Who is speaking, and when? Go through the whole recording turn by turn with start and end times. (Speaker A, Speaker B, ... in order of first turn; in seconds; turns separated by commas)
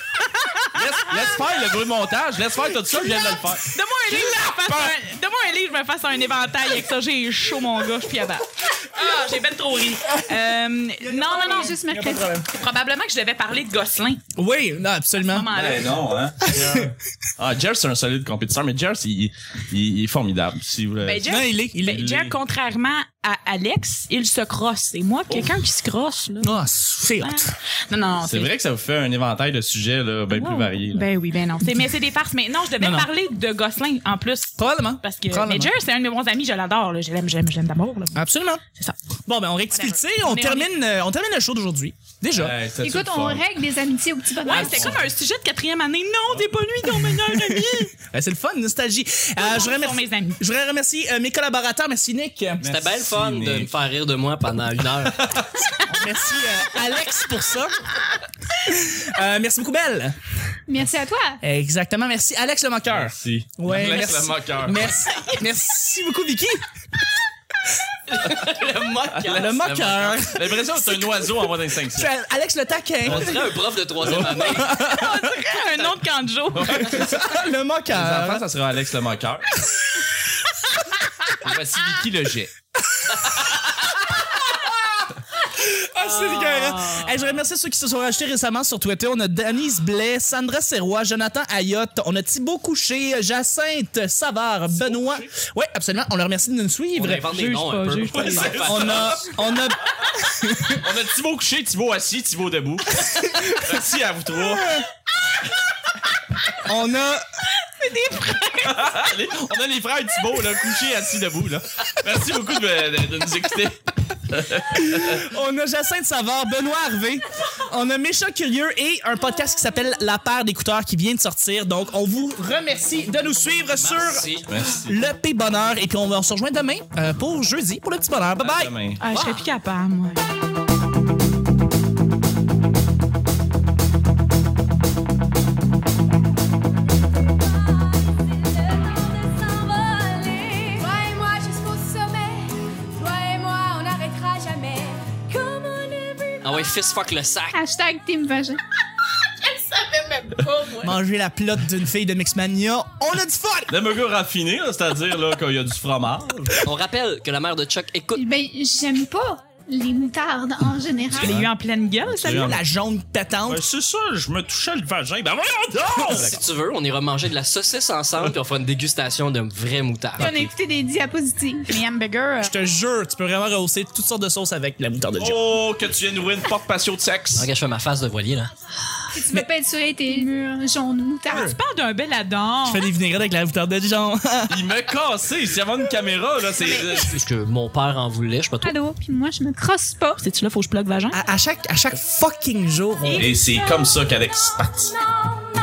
Speaker A: 0.4-1.4, Speaker B: 0.7-3.7, Speaker A: 3.1-11.8, Speaker C: 11.0-12.5, Speaker D: 11.4-12.3, Speaker A: 12.5-14.2, Speaker C: 14.4-15.5, Speaker A: 15.2-16.0, Speaker B: 15.5-22.3, Speaker C: 16.4-16.9, Speaker A: 21.0-26.5, Speaker C: 21.2-22.1, Speaker C: 26.4-27.5, Speaker A: 27.2-28.5, Speaker B: 28.2-31.1, Speaker A: 30.3-38.2, Speaker C: 32.8-33.1, Speaker C: 34.6-35.7, Speaker C: 38.1-38.6, Speaker C: 39.3-42.5, Speaker A: 39.7-40.7, Speaker B: 42.3-43.5, Speaker D: 42.8-45.0, Speaker A: 44.4-47.9, Speaker B: 44.5-45.0, Speaker C: 47.0-52.6, Speaker A: 49.4-50.4, Speaker B: 52.6-53.7, Speaker E: 52.6-55.4, Speaker B: 55.1-55.6, Speaker C: 55.9-57.8, Speaker C: 58.6-60.2, Speaker D: 60.7-61.4, Speaker C: 61.4-66.7, Speaker B: 62.9-64.9, Speaker E: 68.1-69.8, Speaker B: 69.1-72.1, Speaker C: 69.3-73.5, Speaker E: 73.0-74.8, Speaker B: 73.1-73.5, Speaker B: 74.0-74.9, Speaker C: 74.4-75.2, Speaker A: 74.5-77.0, Speaker B: 76.5-79.6, Speaker C: 76.7-78.5, Speaker B: 81.4-82.5, Speaker C: 84.1-97.3, Speaker B: 94.7-95.3, Speaker E: 97.0-99.3, Speaker A: 97.2-98.8, Speaker B: 98.1-99.4, Speaker C: 98.7-100.8, Speaker B: 100.7-104.8, Speaker C: 103.0-103.8, Speaker C: 104.6-104.8, Speaker C: 106.6-107.3, Speaker A: 107.6-109.0, Speaker B: 108.6-115.2, Speaker C: 114.7-128.7, Speaker E: 123.8-124.5, Speaker B: 124.5-125.0, Speaker B: 128.4-129.0, Speaker A: 129.0-130.2, Speaker E: 129.1-129.4, Speaker F: 137.4-146.8, Speaker E: 146.4-147.6, Speaker D: 147.5-148.6, Speaker F: 149.4-150.9, Speaker C: 150.8-153.7, Speaker B: 153.7-156.6, Speaker E: 156.7-158.2, Speaker D: 158.1-161.4, Speaker B: 161.1-161.5, Speaker A: 161.1-162.6, Speaker B: 162.1-162.6, Speaker C: 162.2-163.6, Speaker B: 163.5-166.4, Speaker C: 165.8-166.4, Speaker E: 166.1-170.5, Speaker A: 170.2-170.5, Speaker D: 170.2-171.8, Speaker A: 171.7-172.5, Speaker C: 172.4-175.4, Speaker B: 175.2-177.5, Speaker E: 177.3-178.5, Speaker D: 179.1-181.5, Speaker C: 181.3-181.6, Speaker A: 181.3-182.8, Speaker C: 182.7-184.6, Speaker B: 184.5-187.2, Speaker E: 187.0-188.8, Speaker D: 188.6-190.2, Speaker A: 190.2-191.2, Speaker C: 191.1-193.3, Speaker B: 193.1-195.0